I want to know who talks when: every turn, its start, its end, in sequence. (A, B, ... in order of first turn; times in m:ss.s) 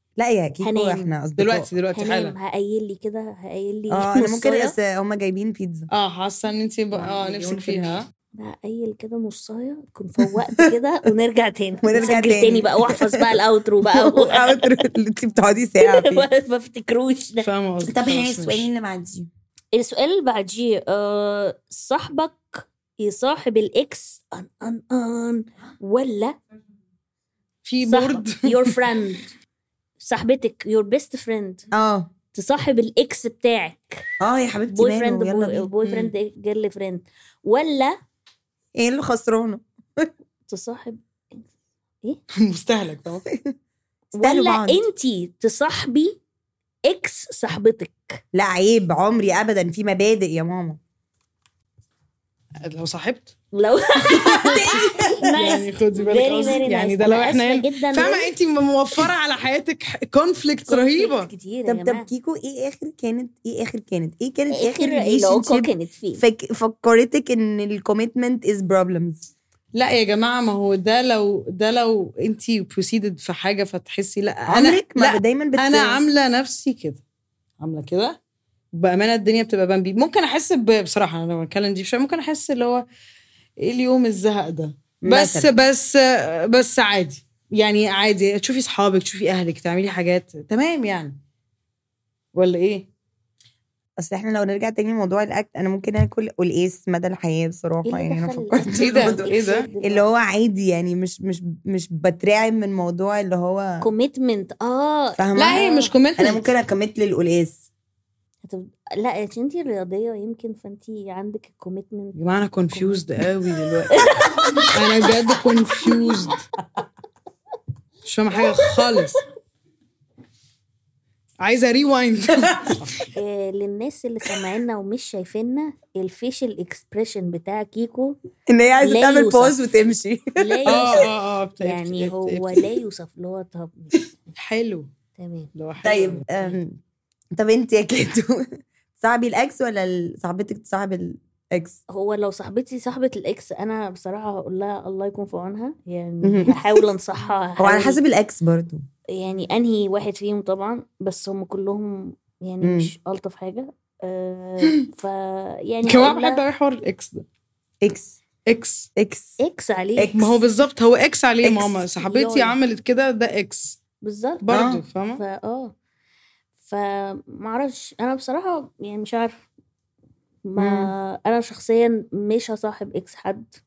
0:00.2-0:01.7 A
0:00.6-0:01.1 B
0:01.4-0:02.4 C
0:01.9-0:04.8 B
0:03.9-0:05.9 A
0:05.9-0:08.1 C
0:06.9-0:08.0 A
0:08.4-0:14.8 B
0:10.2-0:10.7 A
0:11.8-0:16.3 A
0:15.8-0:17.5 B
0:17.4-0:18.7 C
0:17.9-0:19.3 A
0:19.8-0:26.4 B
0:27.6-0:28.8 C
0:27.8-0:29.3 B
0:30.0-0:31.6 B
0:31.7-0:32.1 A
0:32.3-0:34.0 B
0:34.2-0:35.7 A
0:34.7-0:38.0 B
0:35.8-0:36.1 C
0:38.8-0:40.1 A
0:40.5-0:41.5 B
0:42.4-0:43.2 C
0:44.2-0:46.2 B
0:44.2-0:44.8 A
0:46.9-0:48.2 B
0:48.3-0:50.8 A
0:52.6-0:53.3 C
0:53.5-0:58.3 B
0:54.1-0:55.6 A
0:55.3-1:01.3 C
1:00.7-1:02.1 B
1:01.7-1:09.3 A
1:04.5-1:06.2 B
1:09.7-1:17.0 C
1:14.5-1:16.0 A
1:17.6-1:18.2 C
1:18.7-1:22.8 C
1:23.6-1:31.2 C
1:25.0-1:25.5 A
1:32.3-1:32.9 C
1:34.0-1:43.8 A
1:37.8-1:40.1 B
1:38.8-1:39.7 C
1:43.8-1:45.9 B
1:45.2-1:45.6 A
1:45.4-1:46.4 C
1:46.2-1:47.6 A
1:48.4-1:52.2 B
1:52.2-1:54.0 C
1:52.7-1:53.0 B
1:53.9-1:54.7 B
1:54.7-1:56.4 C
1:58.0-1:59.2 C
2:01.4-2:02.9 C
2:03.1-2:08.2 B
2:08.5-2:11.1 A
2:08.8-2:09.6 B
2:10.4-2:11.1 B
2:10.7-2:12.6 C
2:11.6-2:14.0 B
2:14.4-2:14.9 C
2:15.2-2:15.5 B
2:15.6-2:16.4 C
2:15.8-2:16.8 A
2:17.4-2:21.8 A
2:21.9-2:28.0 B
2:26.2-2:26.8 A
2:27.6-2:28.8 A
2:29.1-2:36.4 B
2:32.6-2:32.9 A
2:35.8-2:37.2 C
2:37.8-2:38.2 A
2:38.5-2:38.9 C
2:39.0-2:39.3 A
2:39.4-2:40.2 B
2:40.0-2:40.4 A
2:40.2-2:43.8 C
2:41.4-2:41.8 A
2:42.0-2:42.6 B
2:44.0-2:44.4 B
2:44.4-2:45.2 C
2:44.5-2:44.8 A
2:45.2-2:45.7 B
2:46.6-2:49.4 B
2:50.5-2:53.5 B
2:50.6-2:50.9 A